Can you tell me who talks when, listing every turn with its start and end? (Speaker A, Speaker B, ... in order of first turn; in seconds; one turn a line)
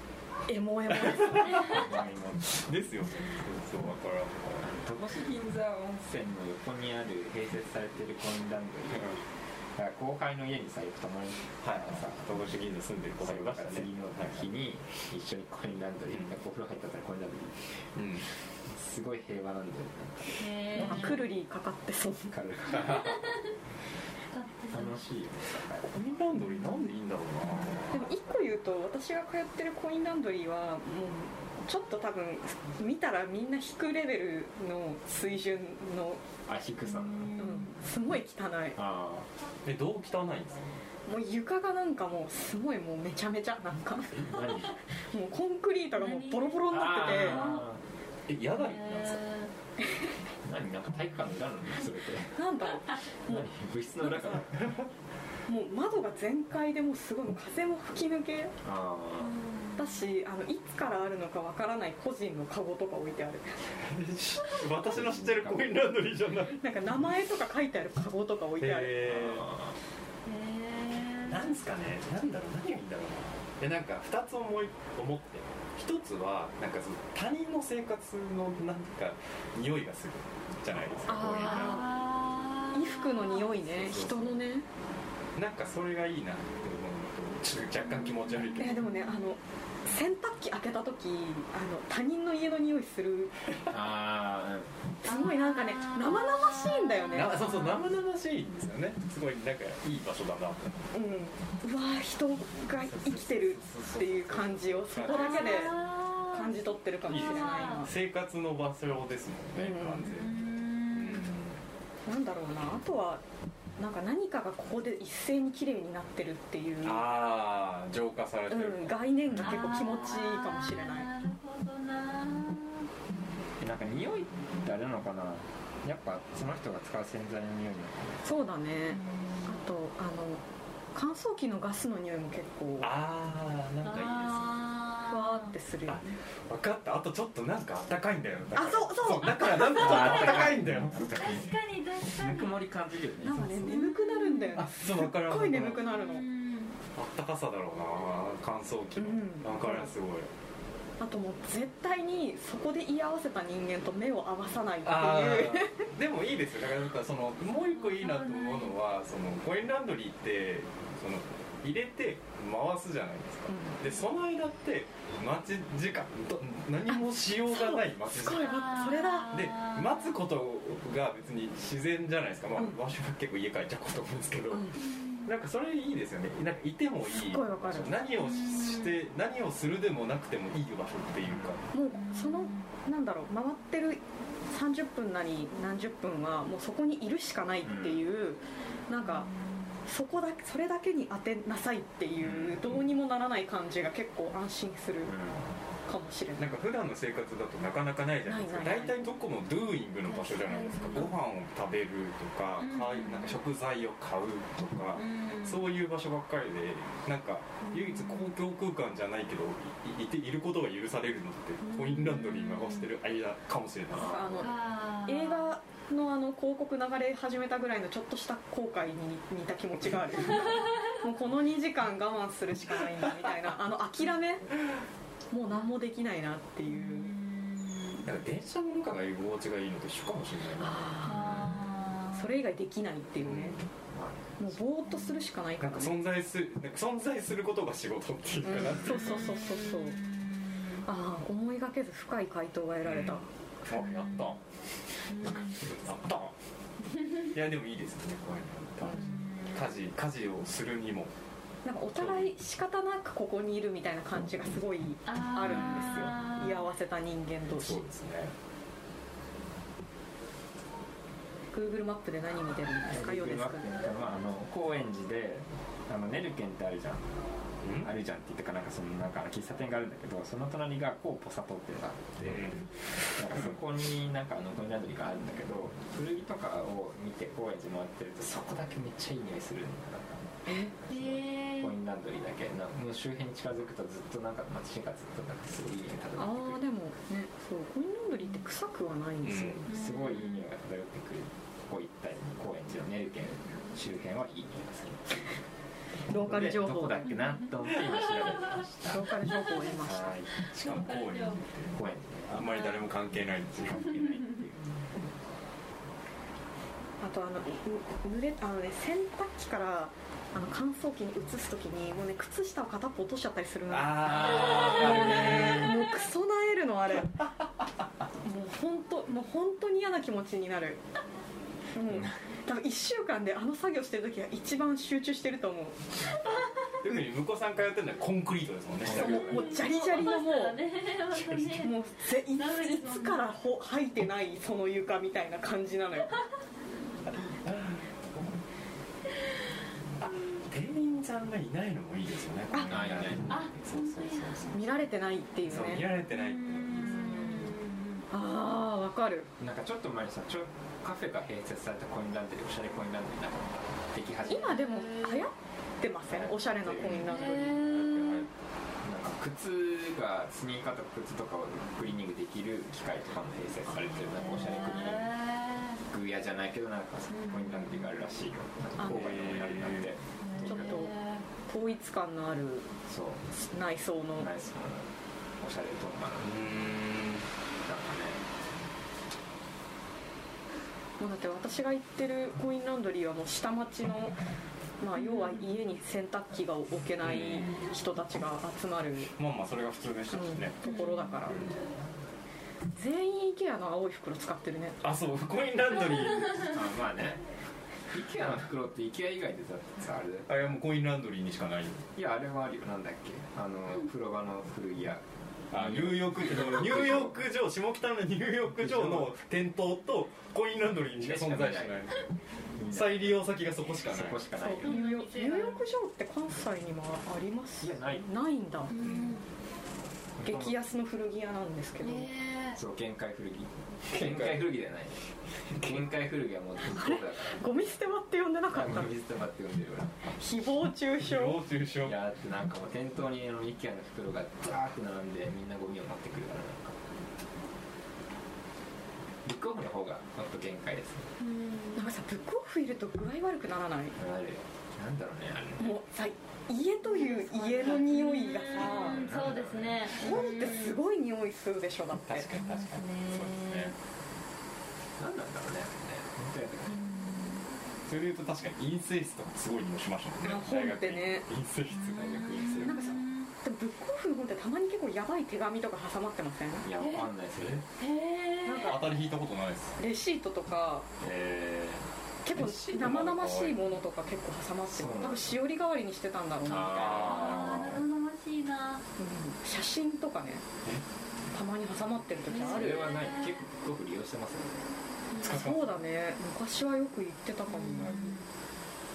Speaker A: 0.5-1.9
Speaker B: 1.1-1.9
Speaker C: 1.7-2.7
Speaker B: 2.5-4.7
Speaker C: 4.6-9.1
Speaker C: 9.8-12.3
Speaker B: 11.6-14.4
Speaker C: 13.2-17.9
Speaker B: 18.0-18.3
Speaker C: 18.6-21.2
Speaker D: 20.4-21.2
Speaker A: 20.8-22.3
Speaker C: 22.3-23.4
Speaker D: 22.8-23.5
Speaker D: 24.3-25.0
Speaker C: 24.7-26.3
Speaker B: 25.9-28.1
Speaker A: 27.9-36.2
Speaker C: 36.5-37.4
Speaker D: 36.9-37.8
Speaker A: 37.4-38.8
Speaker C: 38.8-39.3
Speaker B: 39.6-40.7
Speaker A: 41.1-47.6
Speaker C: 44.2-44.7
Speaker D: 46.0-47.6
Speaker C: 46.7-47.8
Speaker B: 48.3-49.3
Speaker D: 48.6-49.5
Speaker C: 50.4-52.4
Speaker A: 52.4-53.5
Speaker C: 53.3-54.7
Speaker A: 54.0-54.4
Speaker B: 54.6-54.9
Speaker A: 55.5-58.5
Speaker C: 58.6-59.4
Speaker D: 59.2-59.9
Speaker A: 59.8-63.6
Speaker B: 63.7-66.6
Speaker C: 64.8-65.9
Speaker A: 66.6-69.0
Speaker B: 68.6-69.5
Speaker C: 69.1-69.8
Speaker D: 70.3-71.6
Speaker B: 71.3-81.9
Speaker A: 81.1-81.8
Speaker D: 81.2-83.5
Speaker A: 82.7-84.7
Speaker B: 83.7-84.3
Speaker B: 85.3-88.8
Speaker D: 87.9-89.4
Speaker A: 88.6-93.3
Speaker C: 93.7-94.7
Speaker A: 95.0-97.5
Speaker D: 95.0-97.9
Speaker B: 97.1-100.9
Speaker A: 100.9-107.9
Speaker B: 102.7-105.8
Speaker D: 105.0-107.8
Speaker B: 107.1-111.6
Speaker A: 109.6-110.1
Speaker D: 110.0-111.3
Speaker A: 112.1-113.2
Speaker A: 113.8-117.1
Speaker B: 116.8-120.0
Speaker A: 118.5-121.1
Speaker D: 119.4-122.9
Speaker C: 123.6-128.3
Speaker A: 128.2-130.4
Speaker D: 128.9-129.6
Speaker A: 130.9-132.9
Speaker B: 132.8-134.7
Speaker D: 133.8-135.5
Speaker A: 135.1-136.2
Speaker B: 135.9-141.2
Speaker A: 138.6-140.5
Speaker C: 139.8-143.8
Speaker D: 140.1-140.4
Speaker D: 141.1-142.6
Speaker A: 143.2-146.2
Speaker D: 143.6-144.6
Speaker B: 144.6-145.8
Speaker D: 145.7-146.8
Speaker B: 146.9-150.3
Speaker A: 149.0-149.9
Speaker A: 151.0-155.8
Speaker B: 154.8-168.7
Speaker D: 157.5-158.8
Speaker A: 163.5-163.8
Speaker A: 167.5-169.4
Speaker D: 168.3-170.2
Speaker B: 169.3-181.6
Speaker A: 174.5-174.8
Speaker D: 174.8-175.3
Speaker A: 177.1-178.0
Speaker D: 178.2-179.0
Speaker C: 181.3-181.6
Speaker A: 181.7-189.3
Speaker D: 181.9-182.7
Speaker C: 187.6-188.0
Speaker D: 189.1-189.8
Speaker A: 189.9-195.1
Speaker B: 192.3-192.7
Speaker C: 195.1-195.5
Speaker A: 195.9-196.6
Speaker B: 196.4-214.4
Speaker A: 198.3-199.0
Speaker D: 200.1-201.1
Speaker D: 202.6-203.4
Speaker D: 204.9-205.7
Speaker D: 207.7-208.3
Speaker D: 211.7-212.9
Speaker A: 214.0-224.5
Speaker C: 214.0-214.3
Speaker D: 214.4-215.5
Speaker A: 225.3-227.1
Speaker D: 226.7-228.1
Speaker B: 228.0-231.8
Speaker A: 230.6-231.5
Speaker D: 231.0-232.3
Speaker A: 232.1-233.6
Speaker B: 233.2-233.6
Speaker C: 233.9-234.6
Speaker A: 234.4-236.0
Speaker B: 235.6-239.4
Speaker A: 238.4-240.0
Speaker D: 238.8-240.8
Speaker A: 240.8-243.3
Speaker B: 242.8-244.4
Speaker D: 243.7-244.3
Speaker D: 245.1-245.6
Speaker B: 245.2-246.3
Speaker B: 247.3-251.1
Speaker A: 248.8-249.1
Speaker D: 248.9-249.7
Speaker A: 251.7-257.9
Speaker B: 251.9-252.3
Speaker D: 255.1-256.7
Speaker B: 255.4-256.1
Speaker B: 257.5-258.3
Speaker A: 261.5-263.7
Speaker C: 262.9-267.1
Speaker B: 267.6-267.9
Speaker C: 267.8-280.3
Speaker B: 272.3-272.6
Speaker A: 280.5-280.7
Speaker C: 280.8-286.6
Speaker D: 280.9-281.8
Speaker A: 286.2-289.6
Speaker B: 289.2-289.6
Speaker C: 289.6-295.4
Speaker D: 289.7-290.5
Speaker A: 296.1-297.1
Speaker C: 296.1-299.2
Speaker A: 298.9-300.1
Speaker C: 299.8-300.3
Speaker B: 300.4-301.7
Speaker D: 300.5-301.4
Speaker C: 301.7-302.3
Speaker B: 302.3-304.0
Speaker D: 302.4-302.8
Speaker C: 303.6-304.7
Speaker A: 307.0-317.2
Speaker B: 313.7-315.9
Speaker D: 314.2-315.8
Speaker A: 318.2-320.8
Speaker A: 321.8-325.9
Speaker B: 326.8-329.6
Speaker D: 328.9-331.7
Speaker A: 328.9-330.6
Speaker B: 331.1-331.6
Speaker A: 331.6-336.2
Speaker D: 332.2-333.3
Speaker B: 337.3-338.4
Speaker B: 340.0-344.6
Speaker C: 342.7-343.5
Speaker D: 343.3-344.7
Speaker A: 344.5-345.9
Speaker B: 345.4-347.5
Speaker D: 346.1-348.1
Speaker A: 346.9-347.5
Speaker A: 348.1-349.3
Speaker C: 349.4-354.6
Speaker A: 354.3-357.7
Speaker D: 354.6-355.3
Speaker C: 356.1-357.3
Speaker D: 356.9-358.1
Speaker B: 357.4-358.3
Speaker C: 358.8-365.2
Speaker D: 364.0-365.8
Speaker C: 365.9-370.9
Speaker D: 367.1-367.9
Speaker B: 368.8-369.9
Speaker D: 370.2-371.2
Speaker A: 370.5-372.7
Speaker C: 372.9-373.3
Speaker A: 373.3-374.3
Speaker C: 374.2-376.5
Speaker B: 376.2-377.3
Speaker C: 377.6-378.2
Speaker A: 381.0-384.2
Speaker A: 384.8-389.1
Speaker D: 385.0-385.4
Speaker B: 387.0-387.6
Speaker B: 389.1-390.7
Speaker A: 390.1-391.5
Speaker D: 390.7-391.0
Speaker B: 391.2-391.5
Speaker A: 392.7-394.8
Speaker B: 394.8-396.6
Speaker C: 396.5-397.2
Speaker C: 397.9-400.5
Speaker B: 400.3-401.9
Speaker C: 401.9-407.2
Speaker B: 405.5-412.1
Speaker C: 408.5-409.1
Speaker C: 410.9-411.9
Speaker C: 412.6-413.2
Speaker B: 412.7-414.2
Speaker C: 413.9-414.8
Speaker A: 414.4-418.7
Speaker D: 414.6-415.6
Speaker C: 417.6-418.1
Speaker D: 418.7-419.2
Speaker B: 418.8-419.1
Speaker C: 420.2-420.6
Speaker A: 420.2-422.1
Speaker D: 421.8-422.6
Speaker C: 422.6-427.4
Speaker B: 423.9-424.5
Speaker A: 426.7-428.9
Speaker C: 428.5-430.1
Speaker A: 430.1-431.4
Speaker B: 431.0-432.0
Speaker C: 431.8-436.9
Speaker C: 439.2-441.1
Speaker D: 441.2-441.8
Speaker A: 441.8-444.0
Speaker C: 444.0-445.8
Speaker A: 445.6-449.0
Speaker D: 446.9-450.8
Speaker C: 448.8-449.9
Speaker A: 449.9-452.3
Speaker B: 452.1-453.7
Speaker D: 452.4-453.7
Speaker C: 455.0-456.8
Speaker D: 456.7-457.5
Speaker B: 457.9-462.7
Speaker A: 460.2-461.2
Speaker D: 461.7-463.3
Speaker C: 461.9-462.9
Speaker A: 462.6-466.7
Speaker C: 466.6-467.6
Speaker D: 466.8-467.1
Speaker D: 467.8-468.9
Speaker A: 468.4-468.9
Speaker B: 468.6-469.8
Speaker A: 469.8-470.9
Speaker C: 471.0-472.7
Speaker A: 472.2-476.8
Speaker B: 472.5-473.6
Speaker C: 474.7-475.3
Speaker C: 476.5-477.6
Speaker D: 476.5-478.8
Speaker B: 476.5-477.9
Speaker A: 479.0-480.4
Speaker A: 481.3-482.9
Speaker D: 482.3-483.4
Speaker C: 482.4-484.7
Speaker D: 485.1-485.4
Speaker B: 485.2-485.7
Speaker A: 485.2-488.0
Speaker D: 487.5-488.3
Speaker C: 487.9-488.2